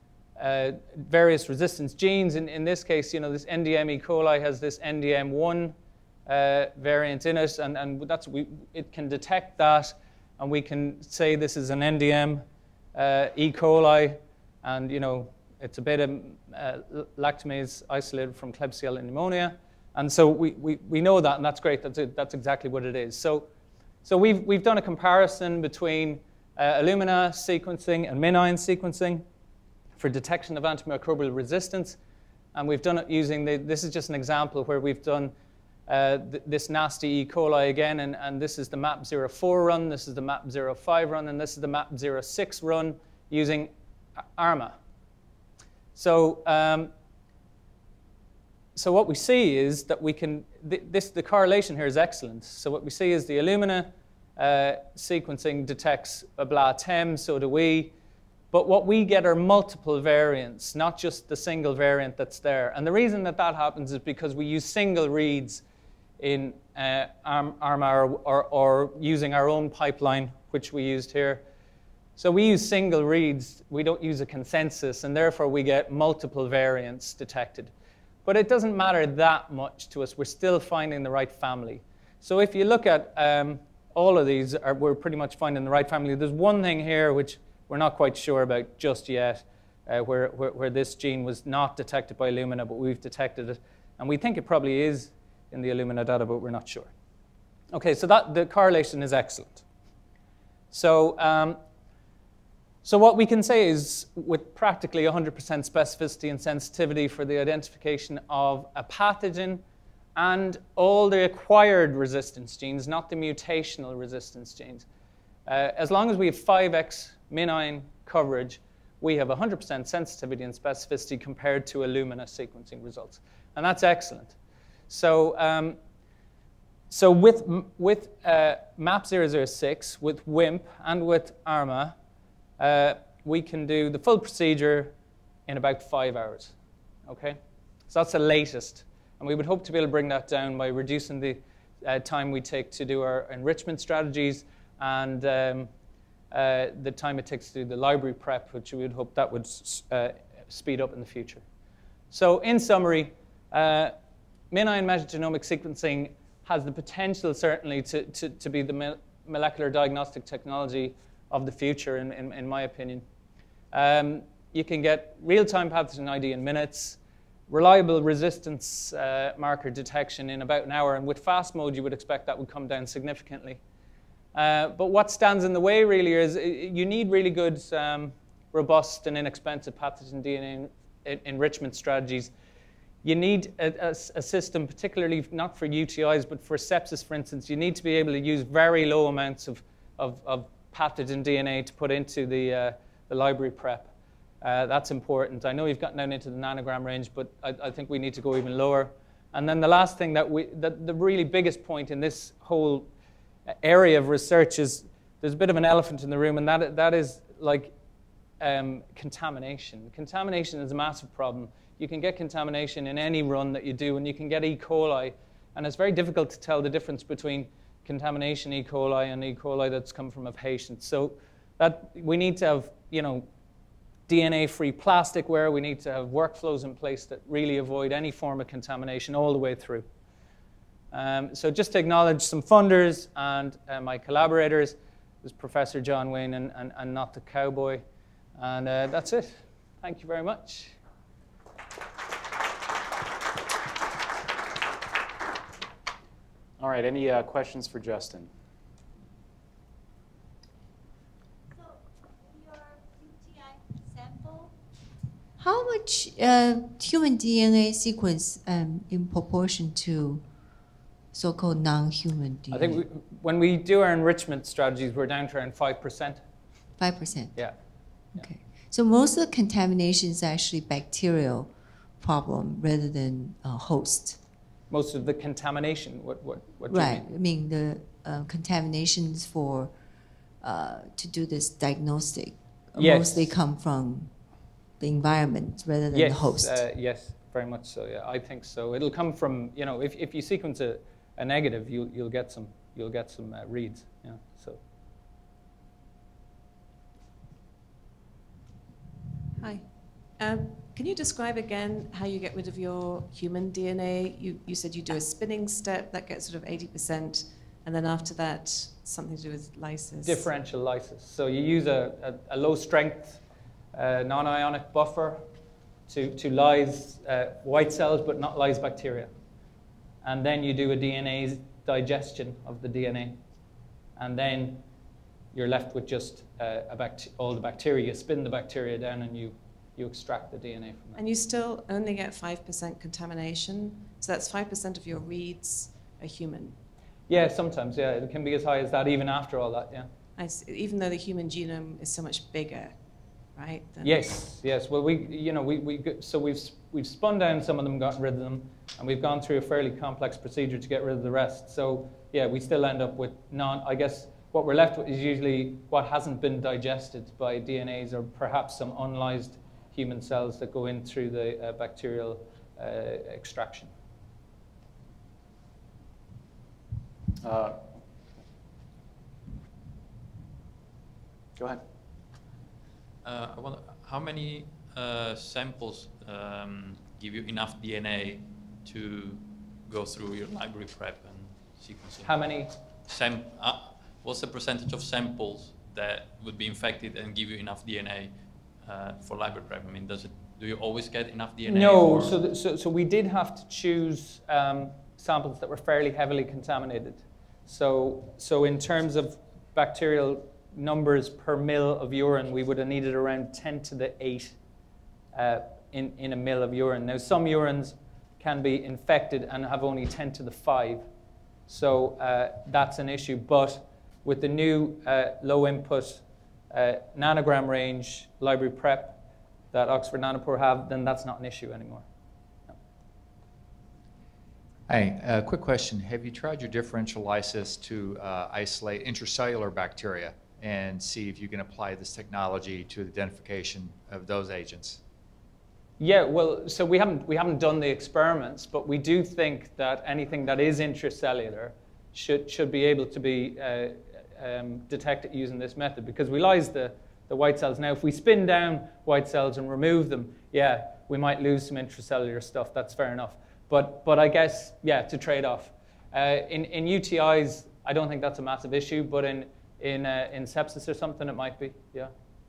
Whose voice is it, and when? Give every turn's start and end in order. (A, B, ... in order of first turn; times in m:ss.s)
0:00.4-0:05.7 A
0:06.2-0:12.4 A
0:12.9-0:23.5 A
0:24.0-0:29.2 A
0:30.0-0:32.0 A
0:32.5-0:35.3 A
0:35.9-0:43.7 A
0:44.4-0:44.8 A
0:46.0-0:46.9 A
0:48.7-0:57.9 A
0:58.5-1:05.6 A
1:06.2-1:11.4 A
1:12.2-1:17.7 A
1:18.2-1:36.9 A
1:37.7-1:39.6 A
1:40.7-1:41.6 A
1:42.8-1:49.6 A
1:50.2-1:54.8 A
1:55.5-2:04.4 A
2:04.9-2:05.8 A
2:06.9-2:11.9 A
2:12.6-2:14.9 A
2:15.5-2:16.5 A
2:17.1-2:25.7 A
2:26.3-2:31.4 A
2:32.1-2:33.9 A
2:34.5-2:43.0 A
2:43.7-2:53.6 A
2:54.3-3:02.3 A
3:03.0-3:22.9 A
3:23.6-3:27.7 A
3:28.4-3:43.2 A
3:44.1-3:49.8 A
3:50.9-3:57.8 A
3:58.4-4:00.8 A
4:06.6-4:08.3 B
4:15.4-4:20.2 C
4:21.1-4:22.8 C
4:22.5-4:26.2 A
4:26.8-4:27.5 C
4:28.1-4:34.2 C
4:34.7-4:37.1 A
4:36.7-4:39.7 C
4:40.4-4:44.1 C
4:42.7-4:43.3 A
4:44.8-4:46.6 C
4:45.9-4:54.6 A
4:59.4-5:10.3 D
5:10.0-5:13.2 A
5:13.7-5:15.2 A
5:15.9-5:19.1 A
5:20.0-5:23.2 A
5:24.0-5:24.6 A
5:25.3-5:31.0 A
5:31.0-5:36.6 D
5:37.1-5:39.9 A
5:40.2-5:42.8 D
5:43.3-5:44.1 D
5:43.8-6:03.7 A
6:07.2-6:07.7 B
6:11.4-6:11.6 B
6:13.0-6:22.2 E
6:22.0-6:22.5 A
6:22.8-6:32.2 E
6:31.4-6:44.4 A
6:45.1-6:50.8 A
6:51.5-6:59.0 A
6:59.5-7:01.8 A
7:04.7-7:14.8 F
7:15.8-7:41.9 A